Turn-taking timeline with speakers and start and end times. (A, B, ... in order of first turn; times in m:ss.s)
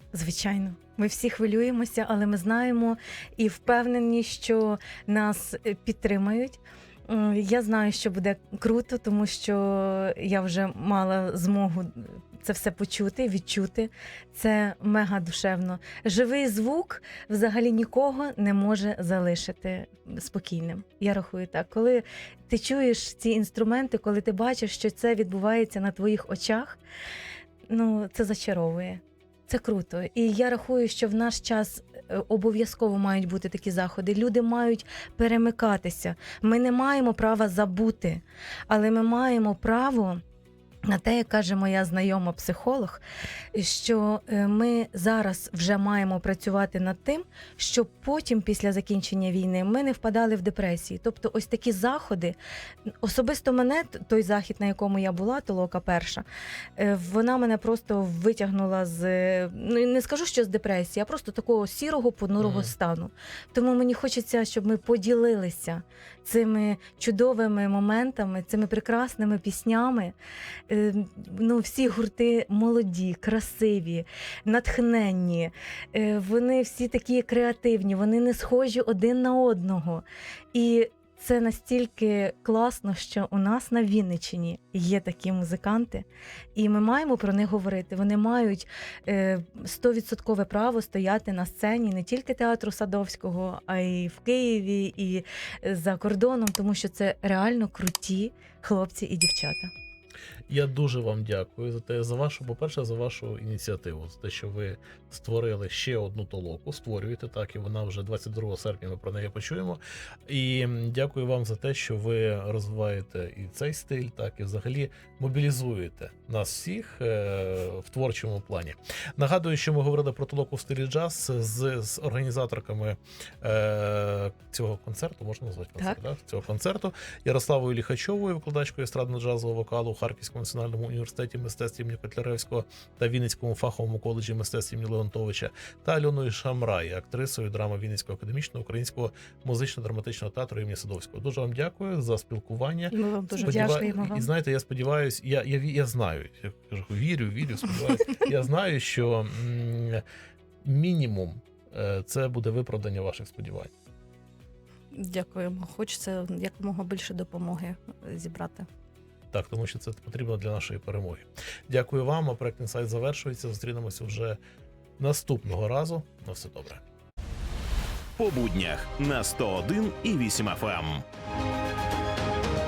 0:00.1-0:26.8 A
0:27.7-0:40.2 A
0:40.9-0:43.0 A
0:43.5-0:52.4 A
0:53.0-0:56.2 A
0:56.8-1:10.1 A
1:02.4-1:02.7 B
1:10.7-1:39.7 A
1:40.5-2:30.0 B
2:22.9-2:23.9 C
2:23.4-2:24.3 A
2:30.6-2:33.7 B
2:34.9-2:38.7 C
2:39.3-2:44.4 B
2:45.0-2:46.8 B
2:48.2-2:51.0 D